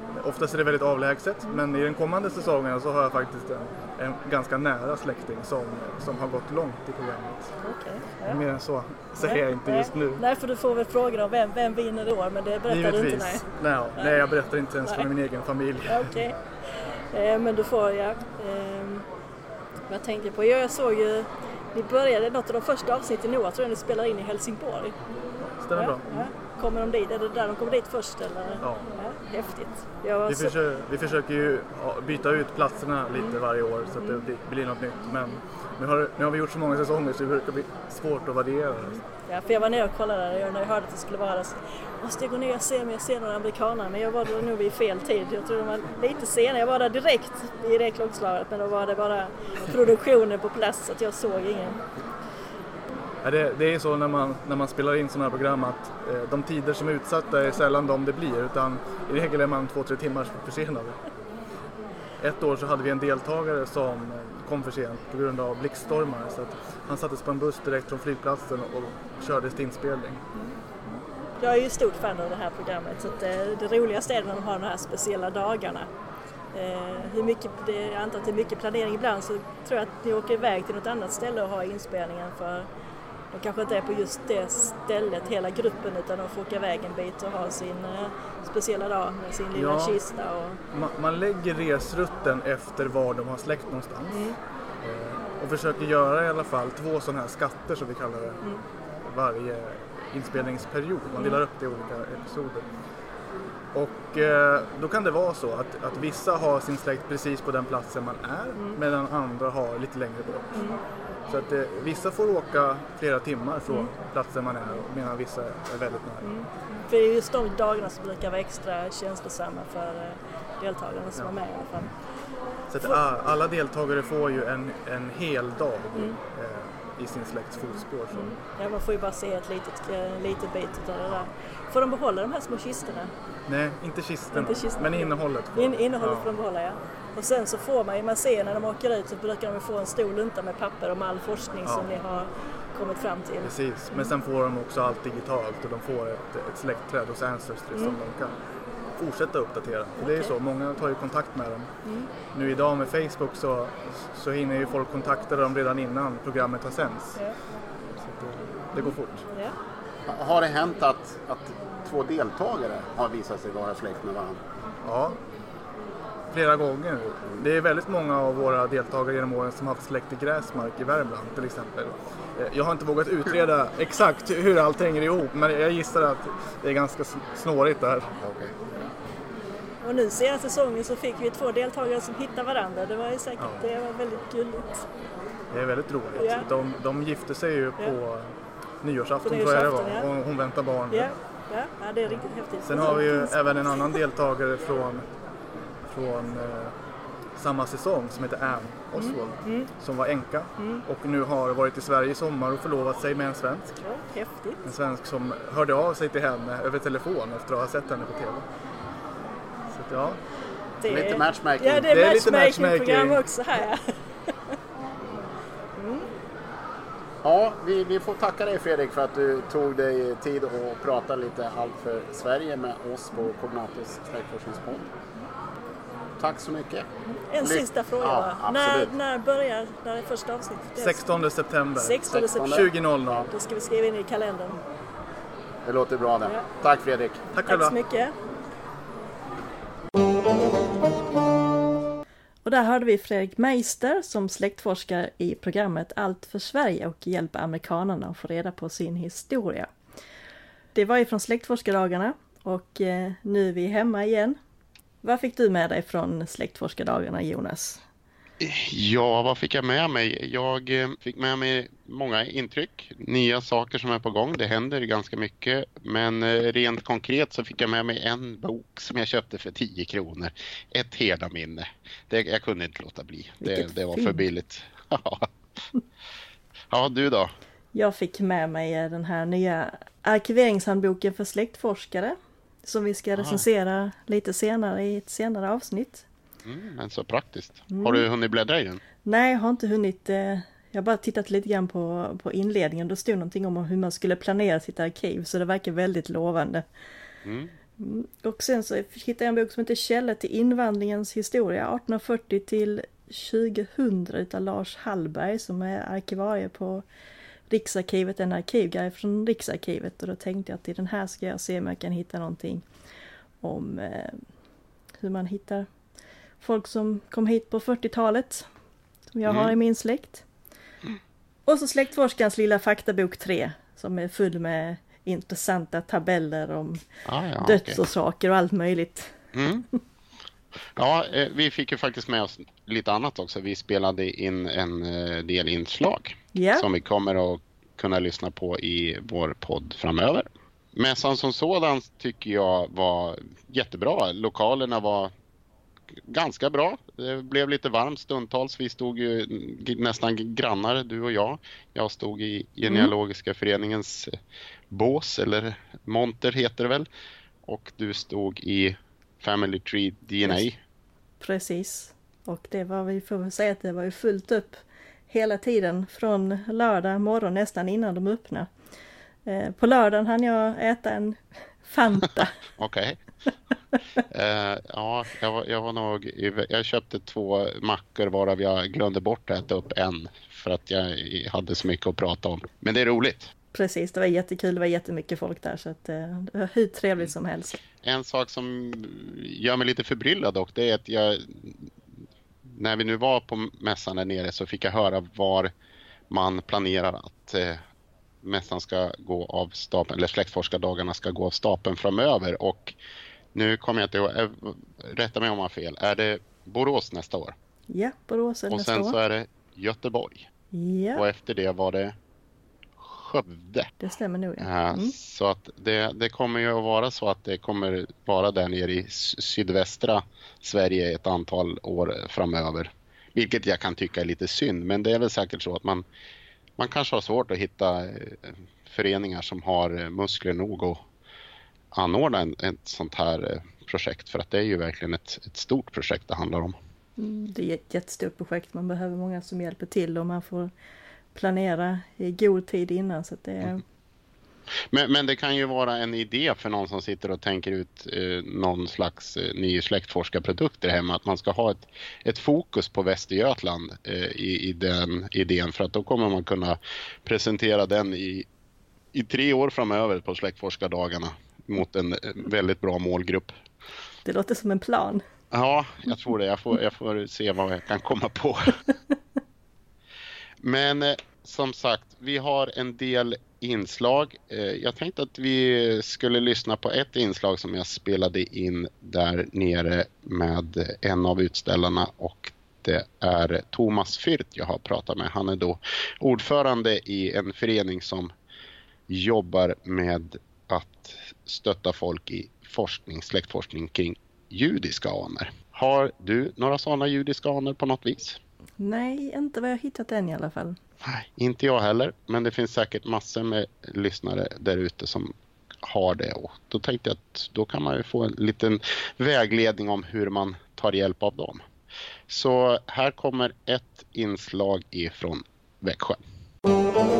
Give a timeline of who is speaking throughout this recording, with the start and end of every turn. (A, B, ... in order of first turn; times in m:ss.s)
0:00.2-0:07.5 A
0:07.6-0:08.4 B
0:08.2-0:10.2 A
0:09.2-0:13.4 B
0:12.7-0:16.1 A
0:14.0-0:14.2 B
0:15.9-0:16.4 B
0:17.1-0:19.0 B
0:19.9-0:24.9 B
0:25.4-0:26.2 A
0:25.7-0:30.5 B
0:28.6-0:28.9 A
0:30.3-0:39.0 A
0:34.0-0:34.2 B
0:39.2-0:51.8 B
0:53.2-1:01.0 A
1:02.2-1:10.2 A
1:10.3-1:15.9 B
1:16.5-1:22.7 B
1:23.3-1:30.6 B
1:29.5-1:30.0 A
1:30.7-1:34.3 A
1:34.1-1:34.4 B
1:34.8-1:38.4 A
1:39.0-1:42.6 A
1:43.7-1:50.6 A
1:51.3-1:56.3 A
1:56.2-2:01.9 B
2:02.7-2:08.3 A
2:08.1-2:13.1 B
2:13.5-2:16.3 A
2:14.3-2:24.1 B
2:21.6-2:21.9 A
2:23.4-2:28.3 A
2:29.0-2:31.7 A
2:30.0-2:30.3 B
2:32.3-2:37.2 A
2:38.0-2:39.2 A
2:38.8-2:39.5 B
2:40.1-2:44.4 C
2:44.8-2:45.2 A
2:46.3-2:58.1 A
2:58.2-2:58.5 C
2:59.8-3:04.8 B
3:03.4-3:03.6 A
3:05.5-3:11.1 A
3:06.2-3:06.5 B
3:09.2-3:10.1 B
3:10.9-3:14.0 B
3:12.1-3:15.0 A
3:15.9-3:16.7 A
3:17.4-3:23.7 A
3:19.0-3:19.7 B
3:23.8-3:24.7 B
3:24.6-3:28.4 A
3:29.7-3:30.2 A
3:30.8-3:34.5 B
3:30.9-3:31.9 C
3:31.8-3:33.2 A
3:35.8-3:36.0 B
3:37.2-3:44.9 C
3:46.2-3:46.9 C
3:47.1-3:51.0 B
3:47.4-3:48.9 C
3:50.8-3:53.3 A
3:51.8-3:52.7 B
3:52.1-3:53.3 C
3:53.3-3:54.6 B
3:55.6-3:57.2 C
3:57.3-3:57.8 A
3:57.4-3:58.1 B
4:02.4-4:09.7 B
4:10.7-4:14.4 B
4:15.0-4:17.8 B
4:18.4-4:35.3 D
4:33.4-4:34.2 B
4:36.7-4:37.3 D
4:37.7-4:46.0 B
4:43.2-4:43.4 D
4:46.4-4:48.8 D
4:47.7-4:48.0 B
4:49.0-4:56.6 B
4:57.2-4:57.5 D
4:57.8-5:06.8 B
5:07.5-5:12.6 B
5:13.4-5:14.2 B
5:15.0-5:15.7 B
5:16.4-5:18.5 B
5:19.1-5:20.2 B
5:19.3-5:19.5 D
5:21.4-5:26.8 B
5:27.0-5:27.8 D
5:27.4-5:29.1 B
5:29.3-5:29.6 D
5:30.8-5:45.1 D
5:36.3-5:36.7 B
5:46.1-5:54.1 D
5:52.6-5:52.9 B
5:54.7-5:56.9 D
5:57.4-6:00.6 D
6:00.2-6:00.5 B
6:01.2-6:08.5 B
6:09.2-6:12.3 B
6:12.6-6:13.0 D
6:14.1-6:23.3 D
6:23.5-6:27.6 B
6:27.8-6:31.7 D
6:32.5-6:35.5 D
6:36.1-6:37.6 D
6:38.2-6:42.7 D
6:43.3-6:47.3 D
6:47.7-6:49.0 B
6:48.5-6:50.2 D
6:50.5-6:51.0 B
6:51.0-6:51.9 D
6:52.8-6:53.7 D
6:53.8-6:54.9 B
6:54.4-7:05.8 D
7:06.6-7:10.8 D
7:11.7-7:16.6 D
7:17.0-7:20.5 B
7:21.1-7:23.6 B
7:24.7-7:38.2 D
7:38.9-7:43.3 D
7:44.0-7:45.0 B
7:45.3-7:48.6 D
7:50.4-8:08.1 D
8:08.9-8:18.2 D
8:18.6-8:20.6 B
8:20.8-8:31.4 D
8:32.1-8:36.0 D